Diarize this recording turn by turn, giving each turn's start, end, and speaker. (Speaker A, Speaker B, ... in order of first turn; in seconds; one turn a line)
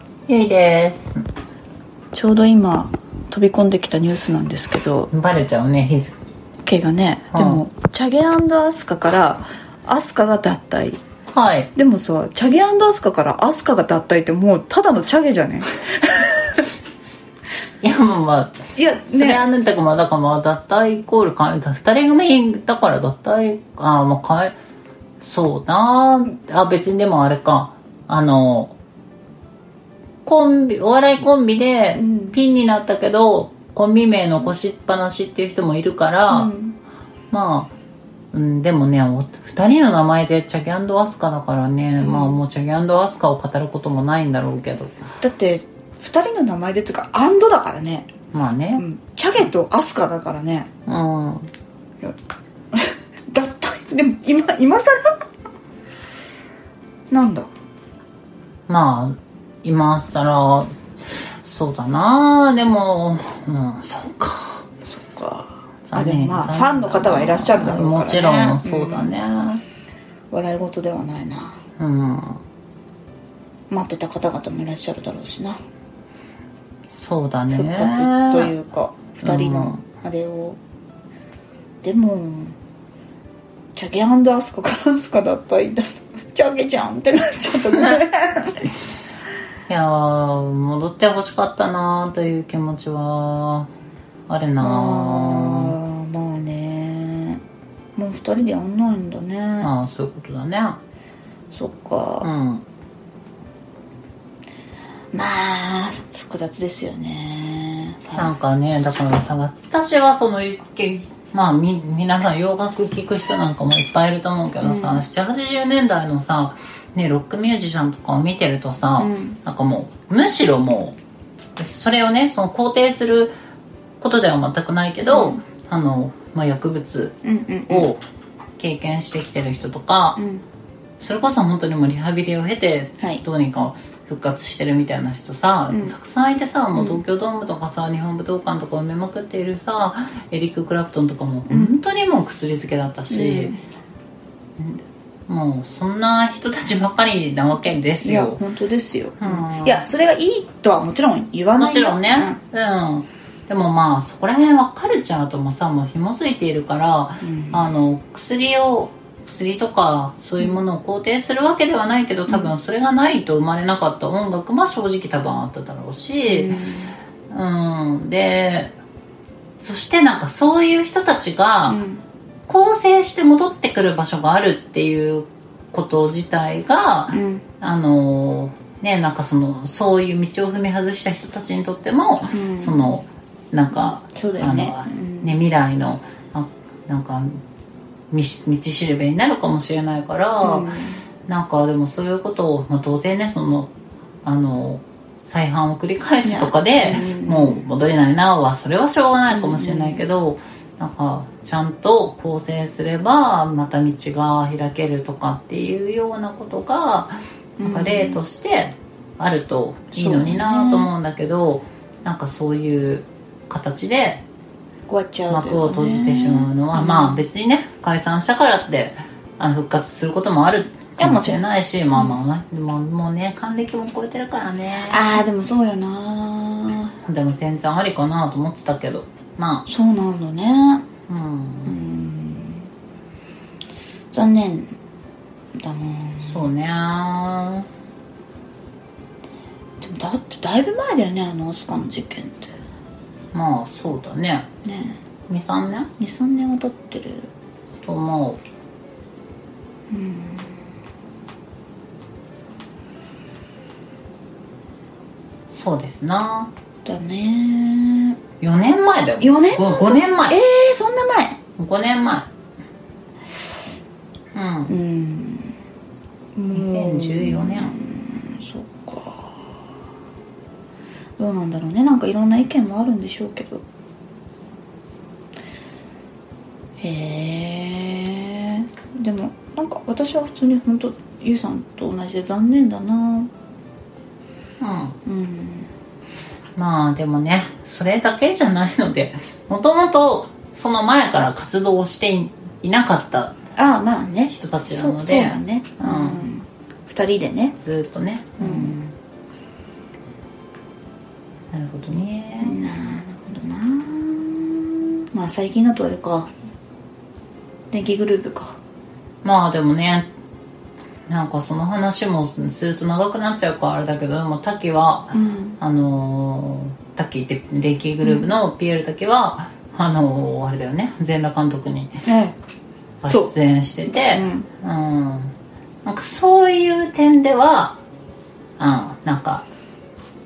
Speaker A: 0.3-1.2
Speaker B: 2.1-5.1
Speaker A: 5.1-6.1
Speaker B: 6.7-11.0
Speaker A: 7.3-7.6
Speaker A: 11.3-11.7
Speaker B: 11.7-16.6
Speaker A: 17.8-24.5
Speaker B: 18.7-19.4
Speaker A: 25.2-28.7
Speaker A: 30.2-36.5
Speaker B: 31.9-32.4
Speaker B: 36.3-36.8
Speaker A: 37.3-37.7
Speaker A: 38.3-44.9
Speaker B: 42.0-42.4
Speaker B: 45.2-48.1
Speaker A: 48.3-48.8
Speaker B: 48.8-50.7
Speaker A: 50.9-51.5
Speaker B: 52.7-55.1
Speaker B: 57.1-57.5
Speaker A: 58.7-60.8
Speaker A: 61.4-64.6
Speaker B: 64.8-69.2
Speaker A: 65.9-69.6
Speaker B: 70.3-71.6
Speaker A: 71.8-72.4
Speaker B: 73.7-75.6
Speaker A: 77.0-78.5
Speaker B: 77.5-80.6
Speaker A: 79.2-79.8
Speaker B: 81.8-82.5
Speaker B: 83.7-88.6
Speaker A: 89.7-93.7
Speaker A: 94.3-95.8
Speaker B: 94.6-97.4
Speaker B: 98.0-99.7
Speaker A: 99.6-100.8
Speaker B: 101.5-102.3
Speaker A: 102.2-102.6
Speaker B: 105.1-108.3
Speaker A: 108.2-121.0
Speaker B: 114.6-115.0
Speaker B: 119.0-119.4
Speaker A: 121.6-123.3
Speaker A: 124.0-127.2
Speaker B: 125.1-125.4
Speaker B: 127.2-127.9
Speaker A: 127.7-128.0
Speaker A: 128.6-130.2
Speaker B: 130.2-130.4
Speaker A: 131.0-143.6
Speaker B: 136.7-137.0
Speaker B: 141.5-141.7
Speaker B: 143.1-143.6
Speaker A: 144.6-148.4
Speaker B: 148.0-152.4
Speaker A: 149.2-149.8
Speaker A: 151.6-166.6
Speaker B: 157.2-157.6
Speaker B: 166.3-166.9
Speaker A: 167.3-168.7
Speaker A: 169.6-171.8
Speaker B: 171.7-172.0
Speaker A: 172.5-187.4
Speaker B: 177.1-177.4
Speaker B: 182.3-182.9
Speaker B: 183.8-185.3
Speaker A: 188.1-190.7
Speaker B: 190.4-191.0
Speaker A: 191.3-193.7
Speaker A: 194.2-214.2
Speaker B: 196.2-197.6
Speaker B: 199.3-200.0
Speaker B: 207.6-208.2
Speaker B: 209.9-210.9
Speaker B: 214.9-217.2
Speaker A: 215.3-225.2
Speaker B: 221.0-221.4
Speaker B: 224.9-226.9
Speaker A: 227.0-229.7
Speaker B: 229.7-230.8
Speaker A: 231.1-231.7
Speaker B: 231.6-232.7
Speaker B: 234.1-234.7
Speaker B: 235.5-236.5
Speaker A: 236.2-237.7
Speaker B: 239.8-242.5
Speaker A: 243.3-244.5
Speaker B: 244.6-245.0
Speaker A: 245.3-245.9
Speaker B: 246.0-247.3
Speaker A: 247.8-248.4
Speaker B: 249.9-250.6
Speaker A: 255.5-256.5
Speaker B: 256.8-258.2
Speaker A: 258.4-260.4
Speaker B: 259.2-261.4
Speaker A: 261.6-262.3
Speaker A: 264.3-264.7
Speaker B: 264.7-265.6
Speaker B: 266.4-269.4
Speaker A: 266.5-267.7
Speaker B: 271.2-273.6
Speaker B: 276.8-283.3
Speaker A: 284.6-284.9
Speaker B: 285.1-285.7
Speaker A: 286.6-293.4
Speaker B: 293.6-297.6
Speaker A: 294.3-296.2
Speaker A: 297.6-298.9
Speaker B: 298.4-298.8
Speaker A: 301.5-302.6
Speaker B: 302.4-306.3
Speaker B: 307.7-308.6
Speaker A: 309.2-310.1
Speaker A: 311.1-322.0
Speaker B: 315.1-315.6
Speaker B: 318.0-318.3
Speaker B: 322.1-322.3
Speaker A: 323.0-325.3
Speaker B: 323.1-323.3
Speaker B: 323.9-324.5
Speaker A: 325.8-327.8
Speaker A: 328.6-329.4